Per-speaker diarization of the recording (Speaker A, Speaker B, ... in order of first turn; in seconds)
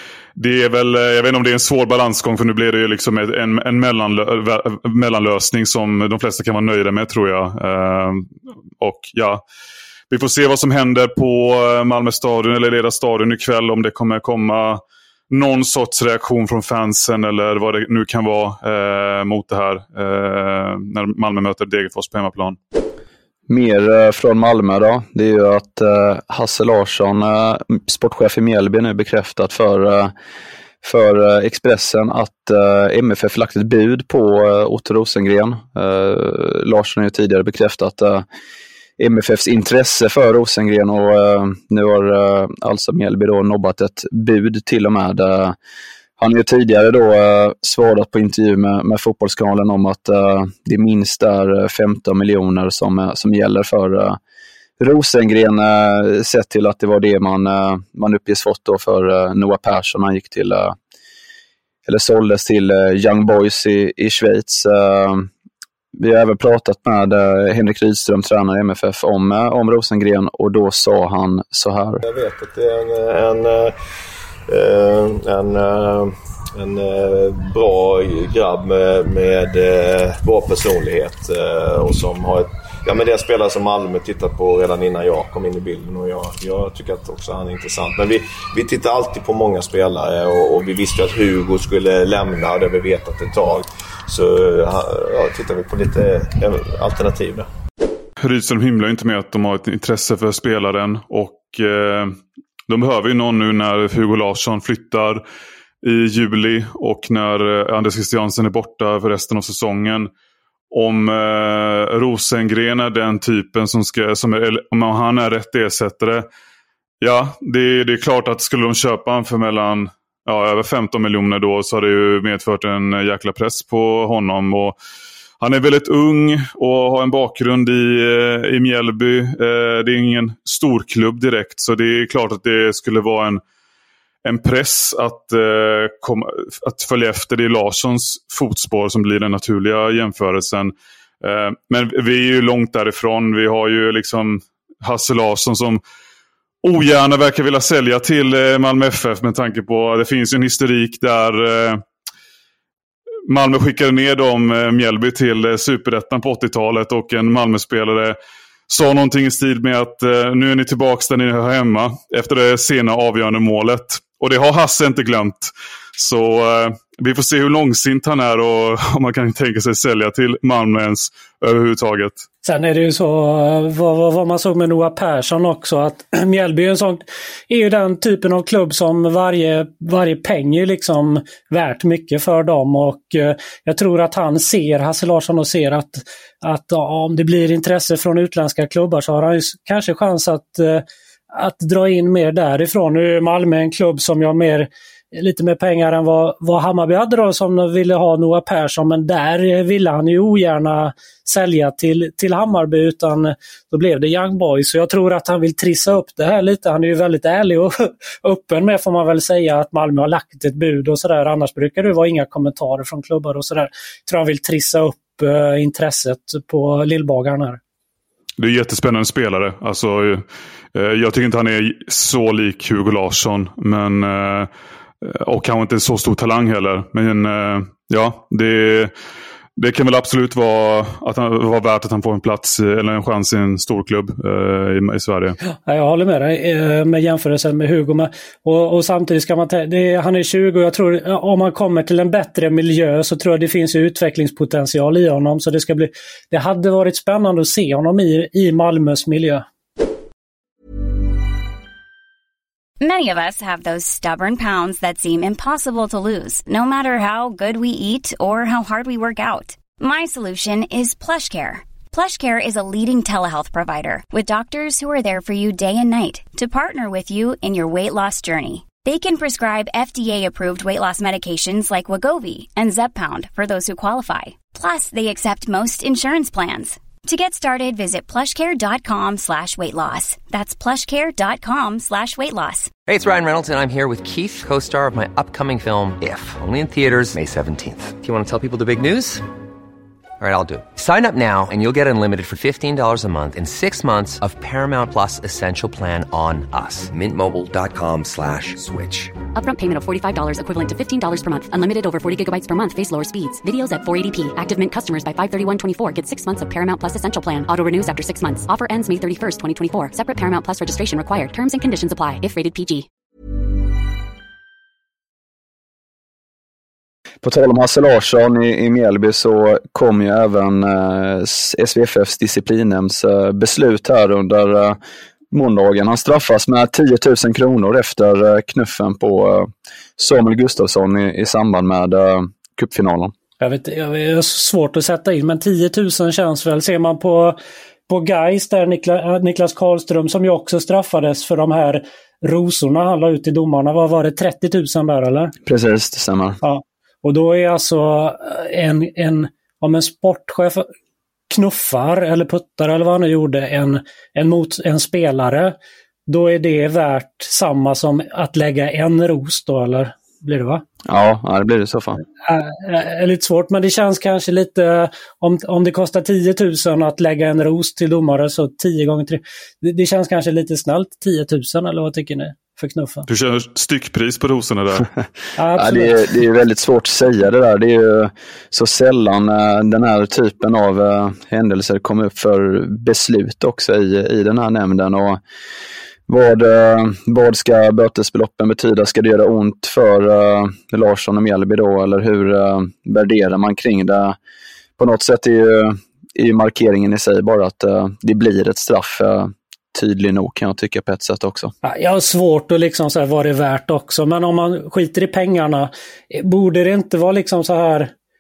Speaker A: 0.4-8.3, 8.8-9.4, 10.1-22.6, 98.2-102.2, 102.7-105.2, 105.8-110.1, 110.7-116.3, 117.0-124.8, 125.4-133.4, 134.2-145.8, 146.6-151.8, 153.3-158.2, 158.7-172.3, 218.4-220.2, 220.8-224.5, 225.0-228.9, 229.6-235.4, 373.1-374.9
Speaker B: 23.5-30.1, 30.8-38.2, 39.0-45.5, 46.2-54.2, 54.8-60.8, 61.9-65.3, 66.0-72.0, 317.2-324.8, 325.3-333.1, 345.4-346.4, 360.9-362.0, 375.6-385.2, 386.1-394.2, 394.8-401.5
Speaker C: 72.0-73.7, 74.5-97.5
Speaker D: 172.4-217.6, 235.5-249.4, 333.4-345.3, 346.4-350.7, 351.3-355.6, 356.1-360.6, 362.2-373.1, 375.4-376.1, 401.6-407.9
Speaker E: 252.8-282.7
Speaker F: 282.9-289.3, 290.2-299.2
Speaker G: 299.4-312.9